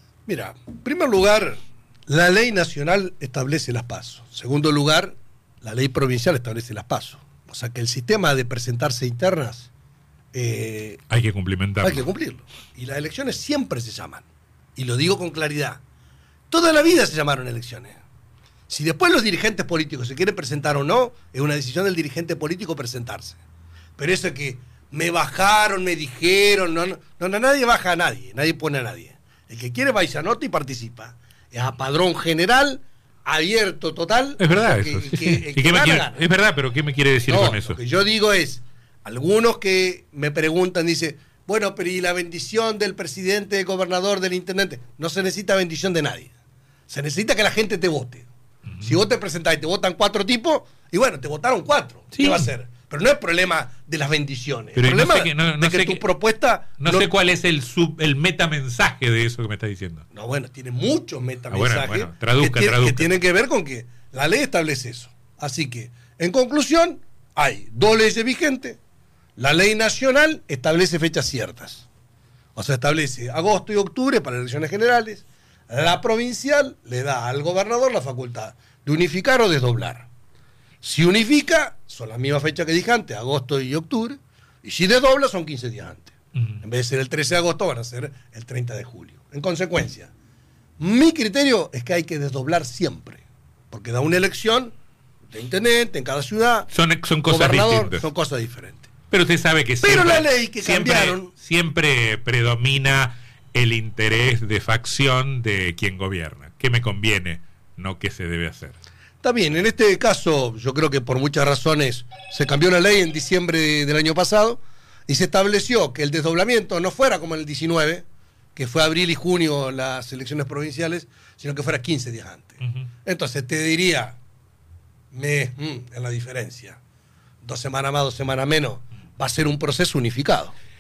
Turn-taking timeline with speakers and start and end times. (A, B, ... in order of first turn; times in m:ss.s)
0:00.3-0:09.7 A
0:10.3-0:11.0 A
0:11.1-0:12.1 B
0:11.8-0:14.2 A
0:14.8-0:15.8 A
0:16.5-0:18.0 A
0:18.7-0:23.4 A
0:24.0-0:36.2 A
0:34.4-0:37.8 B
0:37.3-0:46.3 A
0:46.9-0:48.3 A
0:48.7-0:49.0 B
0:48.8-0:57.1 A
0:52.1-0:52.5 B
0:54.8-0:56.0 B
0:56.8-1:00.0 B
1:00.1-1:08.8 A
1:01.5-1:03.2 B
1:09.4-1:11.8 A
1:12.6-1:20.1 A
1:20.8-1:30.1 A
1:26.4-1:26.6 B
1:30.8-1:34.7 A
1:35.3-1:36.7 A
1:36.7-1:38.0 B
1:37.3-1:38.8 A
1:39.1-1:48.8 B
1:39.8-1:41.3 A
1:49.2-1:58.0 A
1:58.6-2:04.2 A
2:02.6-2:02.9 B
2:05.1-2:06.8 A
2:07.4-2:10.5 A